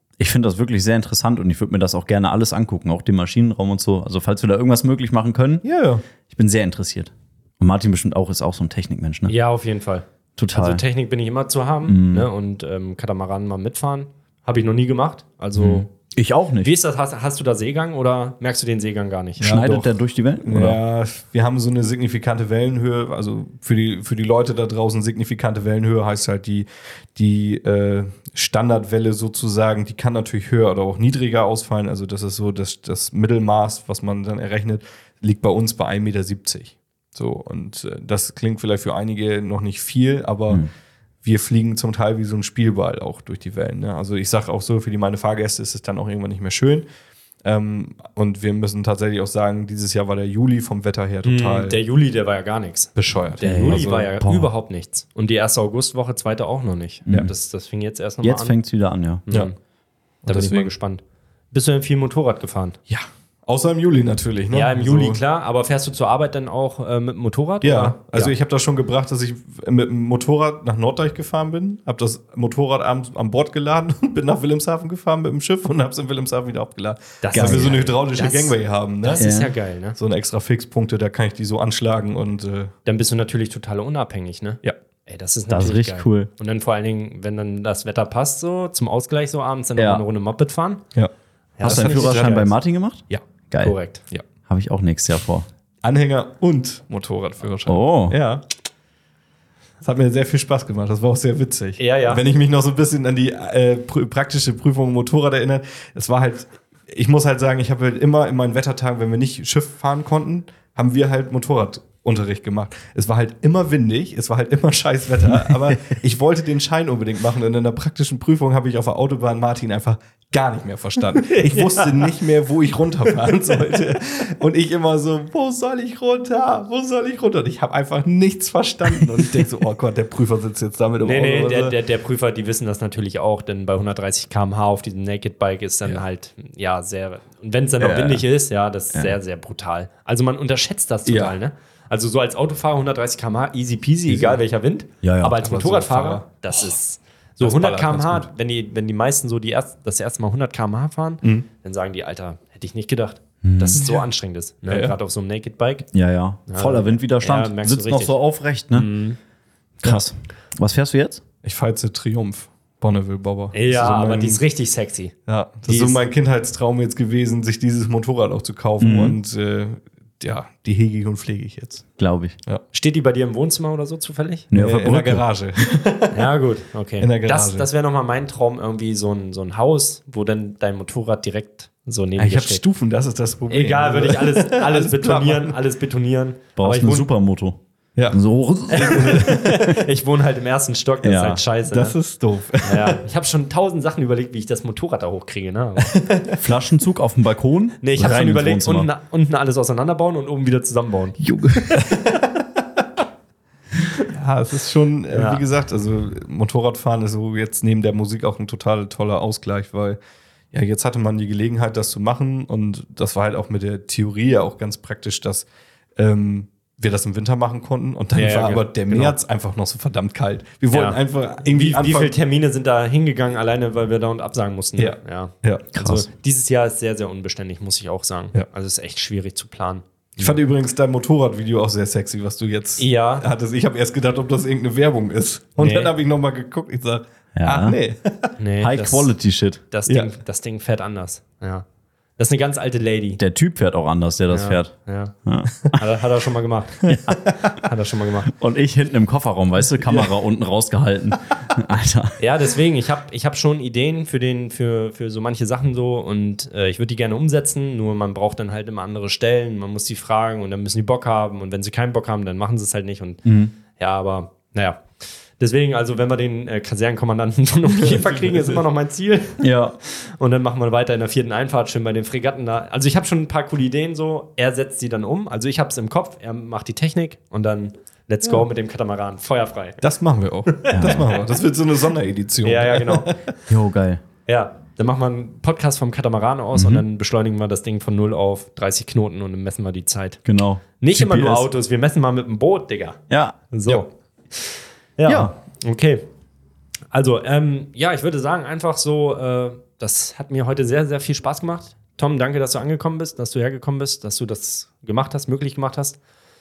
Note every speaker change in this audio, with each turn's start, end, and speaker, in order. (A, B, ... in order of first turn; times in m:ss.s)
0:00.2-0:05.6 A
0:05.6-0:06.0 B
0:06.3-0:09.4 A
0:09.3-0:15.9 C
0:10.4-0:10.8 A
0:11.9-0:12.3 A
0:15.6-0:16.7 A
0:16.6-0:19.7 C
0:19.4-0:20.8 A
0:19.4-0:40.7 B
0:41.2-0:46.9 B
0:47.4-0:51.8 B
0:51.2-0:58.6 C
0:53.0-0:54.1 B
0:53.4-0:54.5 A
0:57.1-0:57.3 A
0:58.2-0:59.2 A
0:59.3-0:59.6 C
1:00.2-1:00.7 B
1:00.3-1:02.8 C
1:02.9-1:05.2 B
1:04.5-1:08.3 C
1:07.6-1:19.3 B
1:17.2-1:20.0 C
1:17.3-1:17.8 A
1:19.2-1:19.5 A
1:20.0-1:22.7 B
1:22.9-1:30.8 C
1:25.5-1:26.3 A
1:29.8-1:30.0 A
1:31.6-1:32.5 C
1:31.6-1:33.8 A
1:31.7-1:32.5 B
1:33.6-1:34.0 C
1:34.5-1:35.5 A
1:35.8-1:38.4 B
1:37.7-1:38.2 A
1:39.8-2:11.8 B
1:41.8-1:42.2 C
2:01.2-2:02.2 C
2:11.0-2:35.9 C
2:17.8-2:18.2 A
2:21.1-2:21.4 B
2:24.1-2:24.4 B
2:25.0-2:25.4 A
2:25.4-2:26.3 B
2:27.4-2:28.3 B
2:33.4-2:33.8 A
2:33.8-2:34.0 B
2:34.7-2:35.0 B
2:35.9-2:38.9 A
2:36.5-2:38.2 C
2:38.7-2:39.2 C
2:39.8-2:41.2 A
2:41.4-2:44.4 B
2:43.5-2:45.1 C
2:45.3-2:51.9 B
2:45.7-2:46.0 C
2:48.8-2:49.2 A
2:52.0-2:52.4 A
2:52.7-2:54.5 C
2:54.5-2:55.2 A
2:54.5-2:56.3 B
2:56.1-3:02.6 C
2:57.0-2:57.7 B
3:02.2-3:05.6 B
3:03.5-3:07.1 C
3:06.6-3:07.6 A
3:08.0-3:09.7 B
3:08.1-3:09.6 A
3:08.7-3:12.0 C
3:11.0-3:11.4 A
3:11.7-3:13.0 B
3:12.6-3:16.0 C
3:15.8-3:16.3 B
3:16.4-3:18.9 A
3:17.8-3:21.7 C
3:21.2-3:21.7 A
3:21.8-3:22.2 B
3:24.1-3:30.0 B
3:25.1-3:25.4 C
3:30.5-3:42.2 B
3:38.2-3:39.2 C
3:40.7-3:50.4 C
3:44.8-3:46.0 B
3:50.2-3:58.4 B
3:52.8-3:53.3 C
3:55.6-3:55.9 C
3:57.4-3:57.8 A
3:58.4-3:59.1 C
3:58.6-3:59.6 A
3:59.7-4:01.6 C
4:02.2-4:03.2 C
4:03.2-4:05.8 A
4:04.3-4:05.1 C
4:05.7-4:08.3 C
4:08.3-4:12.2 A
4:12.2-4:24.9 C
4:23.2-4:23.5 A
4:25.4-4:39.8 C
4:27.8-4:28.6 B
4:29.4-4:29.8 A
4:39.8-4:43.2 B
4:40.5-4:41.4 C
4:40.7-4:41.1 A
4:42.4-4:43.1 C
4:43.5-4:44.0 A
4:44.3-4:50.2 C
4:46.6-4:46.8 A
4:50.2-4:51.4 A
4:50.8-4:56.1 C
4:53.1-4:53.8 A
4:55.1-4:55.3 A
4:56.9-5:06.0 C